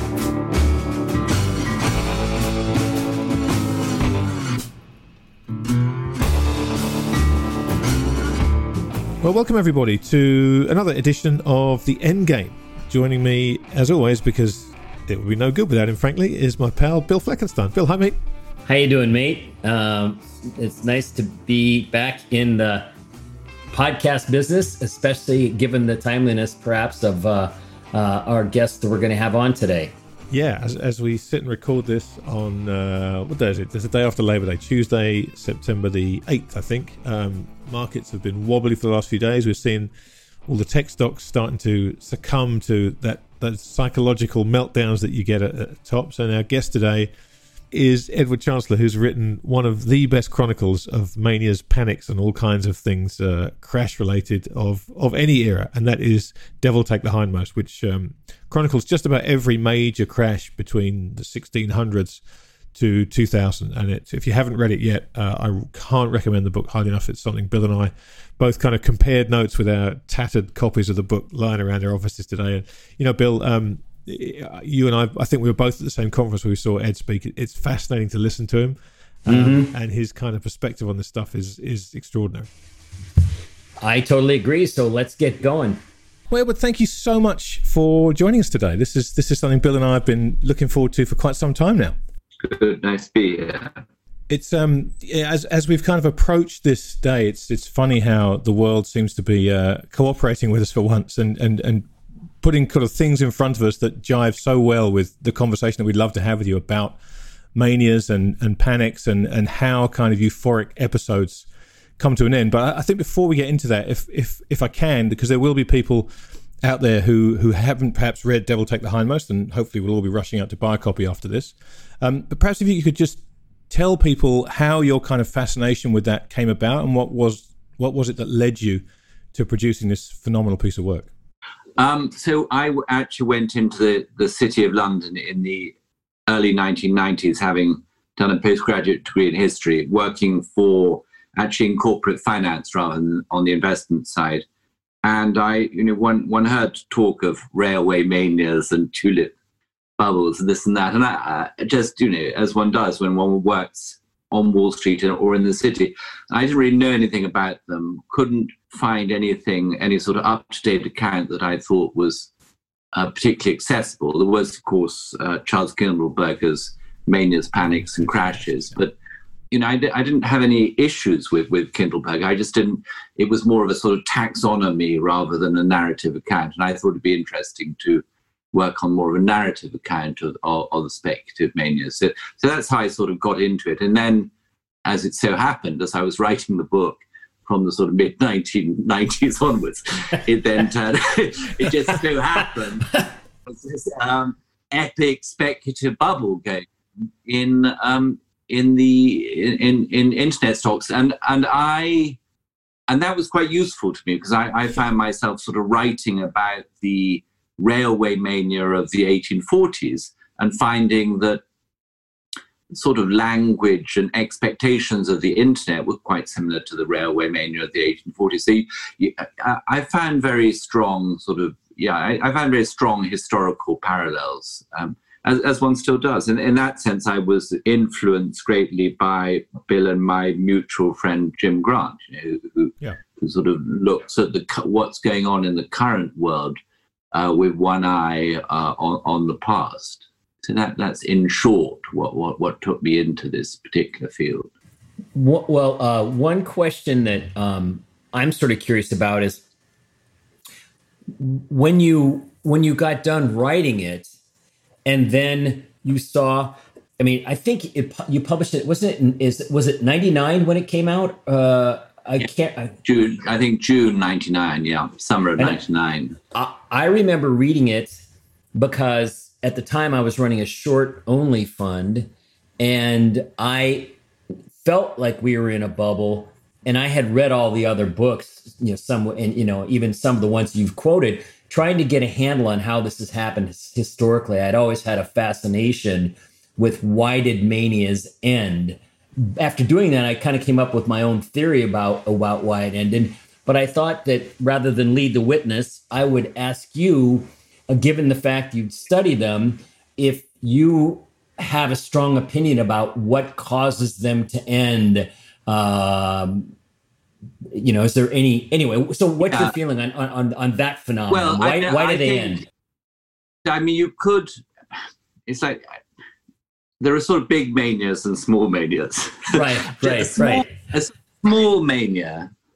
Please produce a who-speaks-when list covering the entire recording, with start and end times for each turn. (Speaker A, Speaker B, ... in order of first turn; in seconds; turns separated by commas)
Speaker A: 9.2-18.2, Speaker B: 18.7-22.9, Speaker B: 23.7-29.9, Speaker A: 30.3-39.9, Speaker A: 40.5-47.1, Speaker A: 47.7-62.2, Speaker A: 62.7-82.5, Speaker B: 79.3-79.7, Speaker B: 83.8-85.8, Speaker A: 86.3-92.0, Speaker C: 92.4-93.7, Speaker A: 94.3-101.9, Speaker A: 102.4-107.0, Speaker A: 107.5-111.5, Speaker A: 112.0-116.1, Speaker A: 116.6-131.1, Speaker C: 131.8-135.7, Speaker C: 136.3-144.4, Speaker C: 145.0-149.3, Speaker C: 150.0-162.3, Speaker C: 162.9-168.9, Speaker A: 167.8-168.2, Speaker C: 169.5-184.3, Speaker C: 184.8-196.7, Speaker C: 197.3-202.2, Speaker C: 202.9-211.4, Speaker C: 212.7-236.6, Speaker C: 237.1-244.5, Speaker B: 245.2-249.4, Speaker B: 251.2-254.1, Speaker B: 254.9-262.8, Speaker C: 262.9-266.2, Speaker B: 266.3-268.0, Speaker B: 268.5-272.1, Speaker B: 272.6-273.9, Speaker B: 274.6-306.5, Speaker B: 307.5-312.4, Speaker C: 311.1-312.4, Speaker C: 313.5-314.3, Speaker C: 315.3-315.6, Speaker C: 316.8-322.3, Speaker B: 319.3-320.5